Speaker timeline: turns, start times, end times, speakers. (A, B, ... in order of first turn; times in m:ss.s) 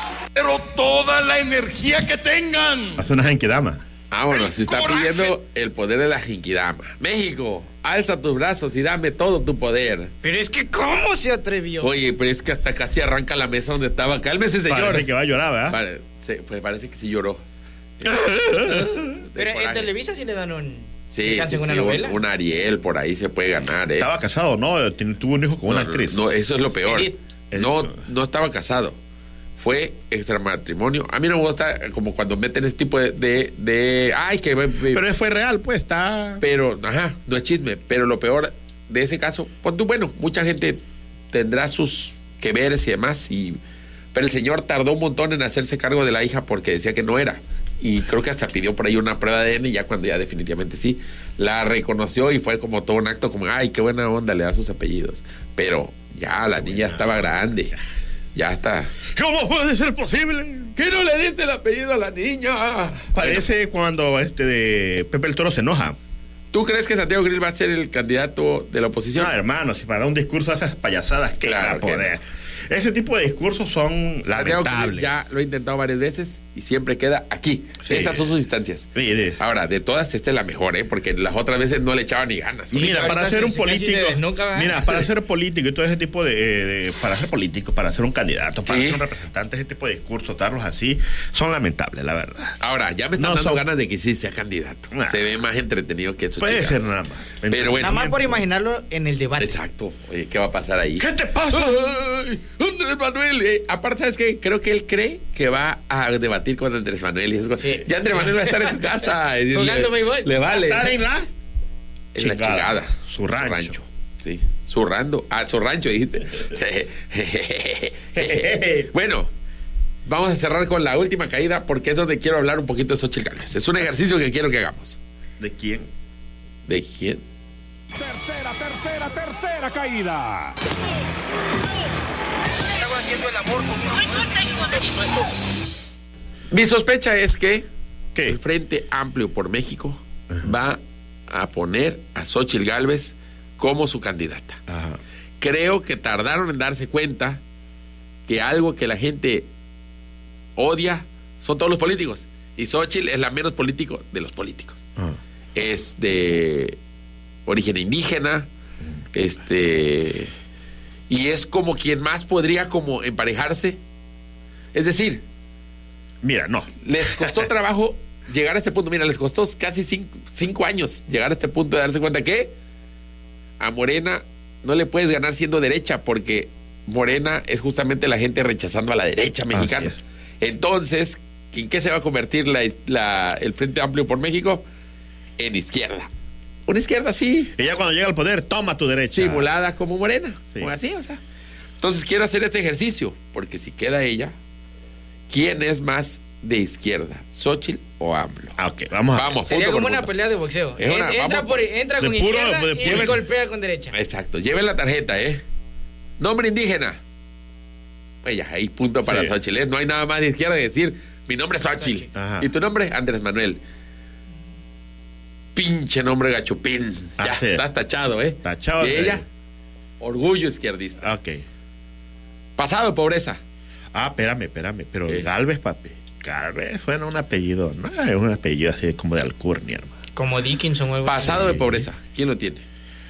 0:00.3-0:03.1 A
0:03.0-0:03.8 B
0:04.1-0:10.1 C
0:04.3-0:05.3 A
0:10.2-0:11.9 D
0:11.8-0:15.1 C
0:14.7-0:15.8 B
0:15.7-0:17.4 C
0:18.0-0:19.9 C
0:18.0-0:19.2 B
0:19.4-0:22.2 D
0:21.1-0:24.1 C
0:24.0-0:26.4 B
0:25.7-0:29.0 C
0:26.9-0:27.2 D
0:27.5-0:28.0 B
0:29.6-0:35.0 C
0:34.9-0:36.4 B
0:36.4-0:40.8 C
0:41.3-0:43.6 C
0:44.1-0:57.7 C
0:56.6-0:57.8 B
0:58.3-0:58.9 C
0:59.0-1:00.7 B
1:00.7-1:03.4 C
1:03.1-1:06.0 B
1:06.5-1:09.3 C
1:09.1-1:15.2 B
1:11.4-1:12.1 C
1:14.3-1:23.1 C
1:17.8-1:18.3 B
1:18.9-1:19.4 B
1:22.7-1:32.6 B
1:22.8-1:25.0 D
1:28.6-1:29.0 C
1:32.6-1:36.8 C
1:33.2-1:33.6 B
1:34.9-1:35.2 B
1:36.4-1:38.4 B
1:37.5-1:38.0 C
1:37.8-1:39.6 D
1:39.4-1:50.9 C
1:41.0-1:41.9 B
1:47.6-1:48.8 D
1:49.5-1:50.3 D
1:50.5-1:51.3 B
1:52.1-1:59.3 C
1:52.2-1:53.8 B
1:58.1-1:58.9 B
2:00.0-2:05.0 C
2:05.4-2:05.9 B
2:06.7-2:07.2 C
2:08.0-2:10.6 E
2:16.5-2:17.7 C
2:18.2-2:24.6 C
2:24.7-2:25.0 B
2:25.4-2:27.4 C
2:28.3-2:29.5 C
2:30.6-2:34.8 C
2:35.5-2:36.8 C
2:37.4-2:38.5 C
2:39.1-2:40.3 C
2:41.1-2:43.8 C
2:44.7-2:45.2 C
2:46.2-2:47.4 B
2:46.8-2:52.5 C
2:53.6-3:04.6 C
2:59.5-3:00.0 B
3:05.4-3:06.1 C
3:06.7-3:07.5 C
3:07.5-3:09.5 B
3:09.1-3:11.2 C
3:11.8-3:14.3 C
3:15.3-3:18.6 C
3:18.6-3:19.3 B
3:19.1-3:20.1 C
3:19.4-3:23.9 D
3:20.8-3:21.6 C
3:22.0-3:23.2 B
3:22.8-3:23.2 C
3:23.9-3:25.4 C
3:26.2-3:27.0 C
3:28.2-3:33.6 C
3:29.0-3:29.3 B
3:31.7-3:32.0 D
3:32.1-3:32.5 B
3:35.5-3:39.2 C
3:37.2-3:37.6 B
3:38.4-3:39.2 B
3:40.0-3:41.0 C
3:41.0-3:41.4 B
3:42.6-3:43.4 C
3:43.9-3:49.9 B
3:50.2-3:51.4 D
3:51.0-3:52.6 C
3:51.2-3:51.9 B